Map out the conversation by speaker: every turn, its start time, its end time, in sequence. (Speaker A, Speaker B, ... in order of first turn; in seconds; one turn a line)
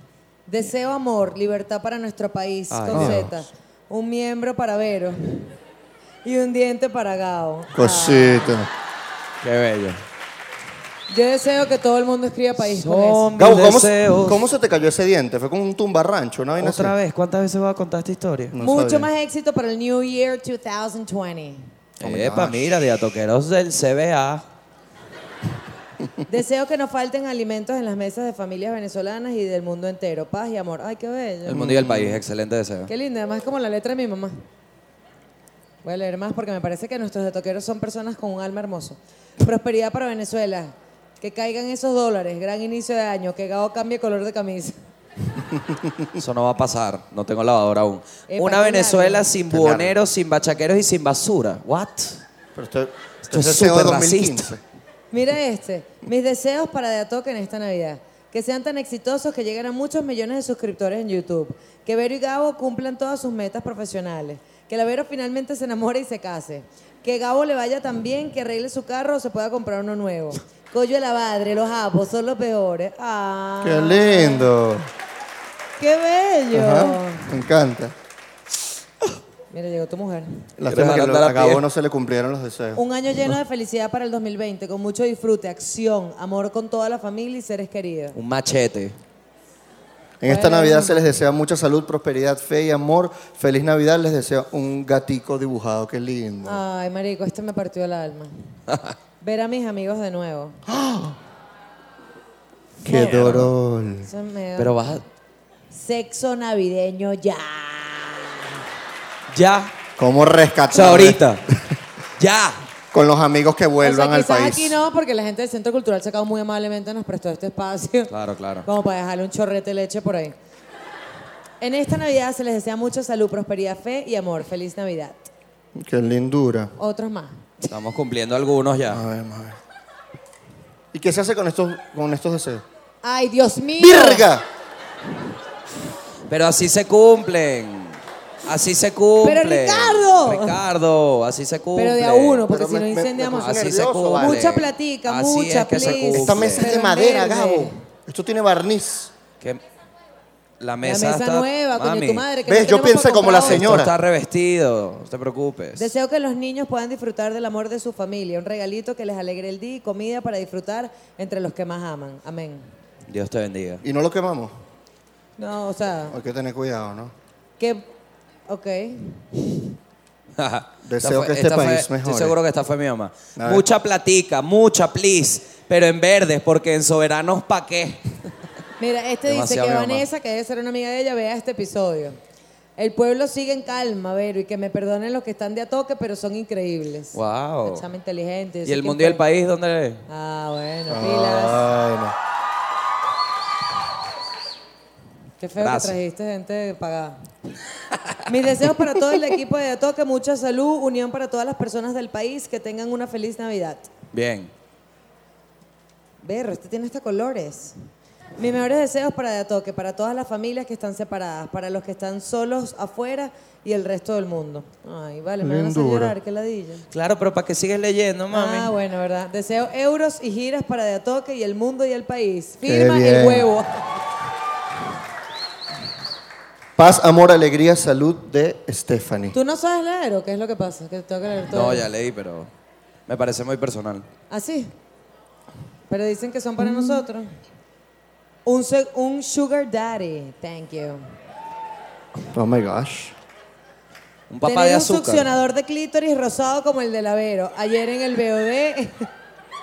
Speaker A: 0.5-5.5
Speaker B: 2.7-3.3
Speaker C: 2.9-3.3
Speaker A: 6.2-8.6
Speaker C: 7.7-8.7
Speaker B: 9.4-10.0
Speaker A: 11.1-13.3
Speaker B: 12.7-14.5
Speaker C: 13.4-16.9
Speaker B: 16.6-18.6
Speaker C: 18.5-19.1
Speaker A: 18.6-21.6
Speaker B: 22.0-24.4
Speaker C: 22.0-22.8
Speaker A: 26.3-31.6
Speaker B: 31.5-32.9
Speaker C: 31.5-32.2
Speaker A: 32.9-34.4
Speaker A: 35.8-44.8
Speaker C: 45.7-46.0
Speaker B: 46.2-52.2
Speaker A: 48.3-49.3
Speaker C: 49.5-49.9
Speaker C: 52.5-54.6
Speaker B: 53.3-54.5
Speaker A: 55.1-74.5
Speaker C: 73.6-74.9
Speaker A: 75.8-77.4
Speaker C: 76.5-77.9
Speaker A: 79.5-80.4
Speaker C: 80.6-82.8
Speaker B: 80.7-81.6
Speaker A: 82.8-88.2
Speaker B: 88.2-89.0
Speaker C: 90.2-96.6
Speaker A: 90.3-91.0
Speaker A: 96.4-98.3
Speaker A: 99.2-100.6
Speaker C: 100.7-101.2
Speaker B: 102.8-103.5
Speaker C: 102.8-104.1
Speaker A: 104.1-104.7
Speaker B: 104.6-105.0
Speaker A: 105.7-108.5
Speaker B: 109.3-109.7
Speaker C: 110.0-111.3
Speaker B: 110.7-111.4
Speaker B: 112.2-112.6
Speaker C: 112.9-114.8
Speaker A: 113.8-118.1
Speaker B: 118.1-118.7
Speaker A: 118.7-120.3
Speaker A: 121.6-125.3
Speaker C: 125.8-126.7
Speaker A: 126.8-127.7
Speaker B: 127.7-129.0
Speaker C: 128.9-129.6
Speaker C: 130.9-132.6
Speaker A: 133.0-134.3
Speaker C: 133.8-134.4
Speaker B: 136.3-142.5
Speaker A: 139.2-140.6
Speaker A: 141.8-143.5
Speaker C: 142.5-144.5
Speaker B: 143.4-146.7
Speaker A: 144.2-147.8
Speaker C: 146.2-149.1
Speaker B: 150.6-152.3
Speaker A: 150.8-153.8
Speaker C: 152.5-153.9
Speaker B: 153.4-155.9
Speaker A: 155.8-162.7
Speaker B: 163.1-163.8
Speaker C: 163.8-164.5
Speaker A: 165.4-166.2
Speaker C: 166.1-167.1
Speaker A: 167.6-167.9
Speaker A: 168.5-169.3
Speaker B: 170.4-178.2
Speaker C: 170.8-172.4
Speaker C: 173.4-173.7
Speaker A: 178.8-182.2
Speaker B: 179.3-180.0
Speaker A: 182.8-189.2
Speaker B: 187.1-187.8
Speaker B: 188.7-190.0
Speaker A: 190.1-191.7
Speaker C: 190.9-192.2
Speaker A: 195.4-197.2
Speaker B: 195.6-196.0
Speaker A: 198.3-203.9
Speaker B: 204.1-204.5
Speaker A: 206.2-207.7
Speaker A: 208.4-216.9
Speaker C: 215.4-216.2
Speaker B: 216.9-218.7
Speaker A: 218.3-224.0
Speaker C: 222.7-223.5
Speaker C: 226.8-229.4
Speaker A: 229.3-231.9
Speaker B: 231.5-232.5
Speaker B: 233.1-234.1
Speaker A: 234.3-234.7
Speaker A: 235.9-237.3
Speaker A: 238.5-241.0
Speaker C: 242.2-243.1
Speaker B: 244.3-245.3
Speaker A: 244.4-249.1